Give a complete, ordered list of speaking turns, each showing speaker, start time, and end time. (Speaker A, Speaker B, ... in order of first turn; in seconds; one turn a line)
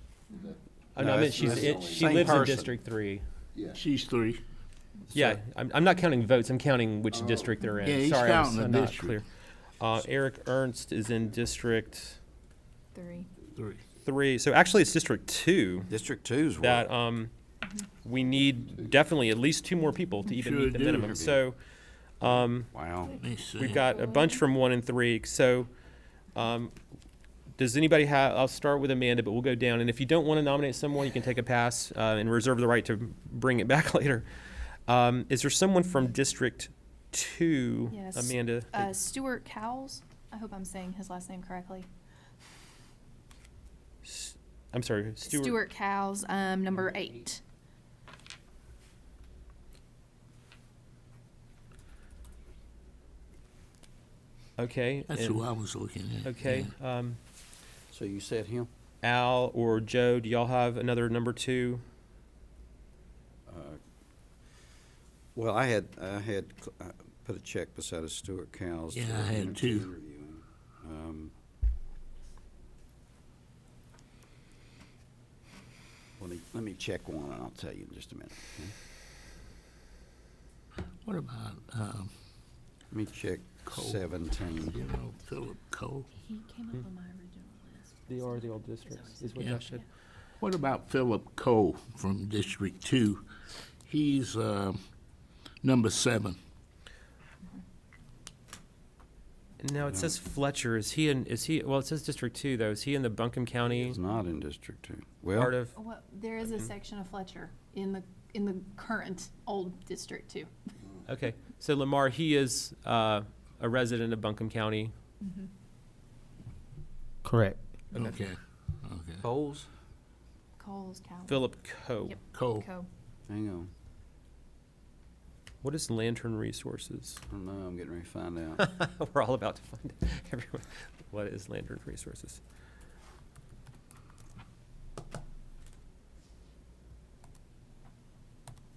Speaker A: 0.3-2.5
Speaker B: 0.9-3.2
Speaker C: 1.0-2.7
Speaker A: 3.5-3.8
Speaker D: 3.7-4.4
Speaker C: 5.1-5.4
Speaker B: 5.1-12.2
Speaker A: 7.1-7.6
Speaker D: 7.8-9.2
Speaker E: 12.9-13.3
Speaker D: 13.6-13.8
Speaker B: 14.0-15.9
Speaker C: 15.9-16.9
Speaker B: 16.6-17.3
Speaker B: 18.0-21.6
Speaker A: 18.1-19.1
Speaker D: 20.3-21.1
Speaker C: 20.9-21.4
Speaker B: 22.2-22.7
Speaker C: 22.3-23.1
Speaker D: 23.1-23.9
Speaker B: 23.6-25.7
Speaker E: 23.9-24.2
Speaker B: 26.3-26.7
Speaker B: 27.6-34.3
Speaker B: 34.9-39.0
Speaker E: 37.9-41.9
Speaker B: 44.0-45.6
Speaker E: 45.2-47.4
Speaker B: 54.6-55.5
Speaker D: 55.1-56.7
Speaker B: 56.2-57.2
Speaker C: 57.9-58.7
Speaker B: 59.0-61.8
Speaker C: 63.5-63.8
Speaker C: 65.3-71.3
Speaker D: 68.9-69.9
Speaker C: 76.2-78.7
Speaker D: 81.0-82.1
Speaker C: 82.9-84.8
Speaker D: 83.7-86.1
Speaker E: 86.2-89.8
Speaker B: 88.1-89.8
Speaker D: 90.4-93.2
Speaker D: 93.8-94.8
Speaker D: 95.6-96.4
Speaker B: 99.6-104.0
Speaker C: 99.8-100.2
Speaker C: 103.7-105.5
Speaker B: 105.3-105.7
Speaker E: 105.7-110.5
Speaker B: 106.4-106.7
Speaker B: 111.0-114.9
Speaker E: 115.2-115.5
Speaker B: 117.2-117.6
Speaker D: 117.9-119.2
Speaker C: 119.2-119.7
Speaker E: 120.6-121.5
Speaker B: 121.3-122.2
Speaker E: 122.0-122.9
Speaker D: 122.3-122.7
Speaker C: 123.3-123.7
Speaker B: 125.6-127.2
Speaker C: 127.3-128.6
Speaker B: 128.6-132.4